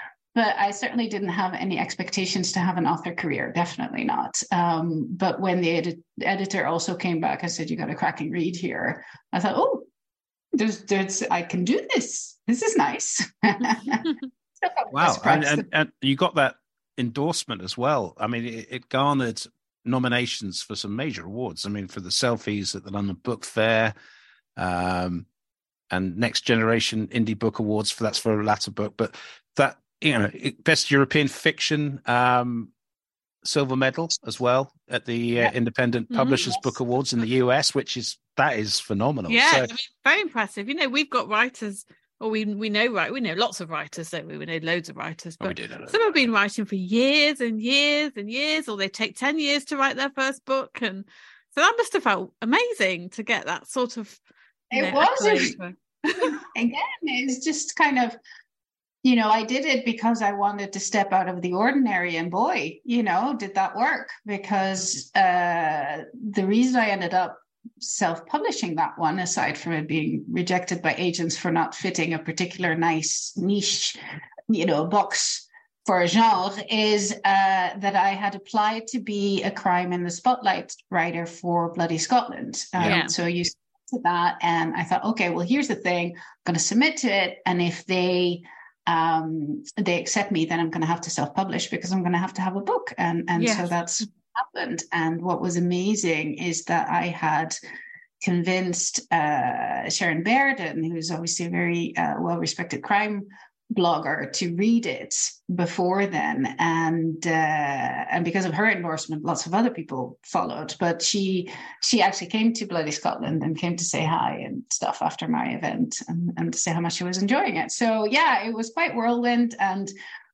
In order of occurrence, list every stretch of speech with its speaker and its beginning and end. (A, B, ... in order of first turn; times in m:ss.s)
0:00.3-0:09.9 A
0:10.6-0:15.6 A
0:14.9-0:23.9 B
0:24.6-0:25.3 B
0:25.9-0:32.7 B
0:33.4-0:39.7 B
0:36.1-0:36.6 C
0:39.3-0:54.2 C
0:45.4-0:46.1 B
0:54.7-0:55.5 A
0:54.7-0:56.3 C
0:56.2-0:58.2 A
0:59.0-1:14.0 A
1:14.5-1:37.6 A
1:22.8-1:23.0 B
1:22.8-1:23.1 C
1:33.4-1:33.8 C
1:38.2-1:59.9 A